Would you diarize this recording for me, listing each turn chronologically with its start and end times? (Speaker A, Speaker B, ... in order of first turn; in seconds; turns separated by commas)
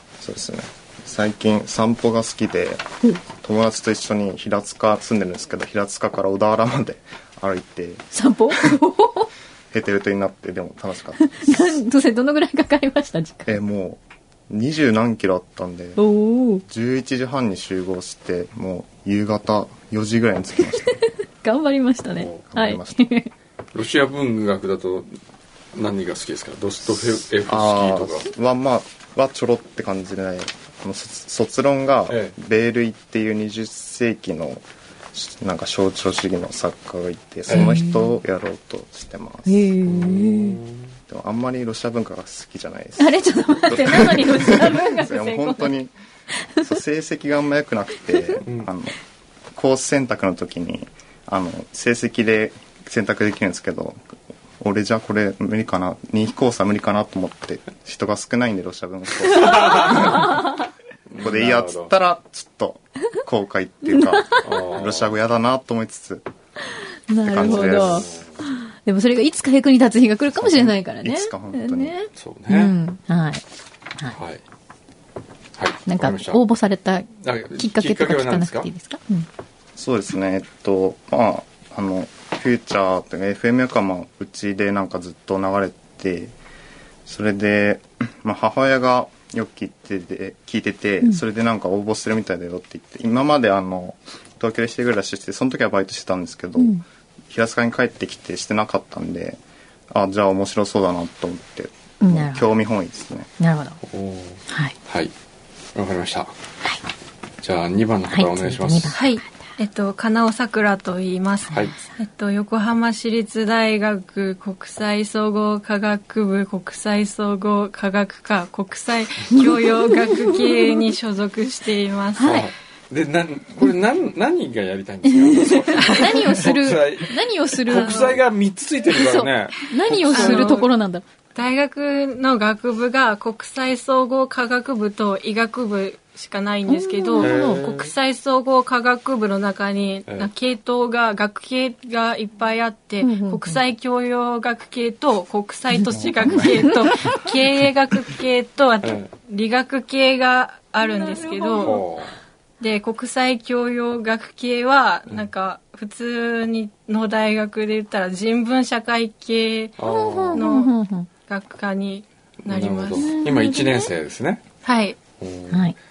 Speaker A: 0.2-8.1, Speaker B: 8.1-9.3, Speaker A: 9.7-11.8, Speaker B: 11.2-13.6, Speaker A: 13.5-16.0, Speaker B: 16.0-16.6, Speaker A: 16.6-21.0, Speaker B: 21.4-23.3, Speaker A: 22.5-23.1, Speaker C: 23.7-25.2, Speaker C: 25.8-28.3, Speaker A: 27.5-39.9, Speaker C: 32.1-32.4, Speaker B: 37.5-38.1, Speaker B: 39.5-40.6, Speaker C: 39.9-40.8, Speaker A: 41.1-45.9, Speaker B: 43.0-45.7, Speaker A: 46.6-49.0, Speaker C: 48.5-48.7, Speaker A: 49.5-54.0, Speaker A: 54.6-60.4, Speaker C: 59.4-60.4, Speaker C: 61.1-61.9, Speaker A: 61.2-66.3, Speaker B: 63.9-64.4, Speaker C: 64.4-65.1, Speaker B: 67.1-68.1, Speaker A: 67.2-68.2, Speaker C: 67.4-68.4, Speaker B: 68.8-73.4, Speaker A: 70.4-71.9, Speaker C: 72.2-72.8, Speaker C: 74.1-74.4, Speaker C: 75.6-76.4, Speaker B: 75.9-79.3, Speaker C: 77.2-78.7, Speaker A: 79.8-86.3, Speaker A: 87.1-103.3, Speaker B: 96.6-96.8, Speaker B: 102.0-102.5, Speaker B: 103.4-103.8, Speaker C: 103.9-105.1, Speaker B: 104.5-104.8, Speaker C: 105.8-106.3, Speaker C: 107.4-109.0, Speaker B: 108.1-109.3, Speaker D: 108.9-122.5, Speaker B: 111.5-111.8, Speaker B: 119.3-120.8, Speaker B: 122.2-122.5, Speaker C: 122.2-130.6, Speaker B: 125.1-128.1, Speaker D: 125.8-126.2, Speaker D: 127.7-128.2, Speaker B: 129.0-131.0, Speaker D: 130.1-130.7, Speaker D: 131.3-151.8, Speaker B: 136.7-137.6, Speaker C: 137.2-137.9, Speaker B: 143.0-143.6, Speaker B: 145.7-147.3, Speaker C: 145.9-146.6, Speaker C: 148.8-149.1, Speaker B: 150.8-151.8, Speaker C: 151.6-152.1, Speaker D: 152.6-159.8, Speaker C: 159.8-160.5, Speaker B: 159.8-161.1, Speaker D: 160.3-160.7, Speaker D: 161.2-163.2, Speaker C: 162.5-164.4, Speaker B: 163.0-163.9, Speaker D: 164.6-165.0, Speaker C: 165.2-165.7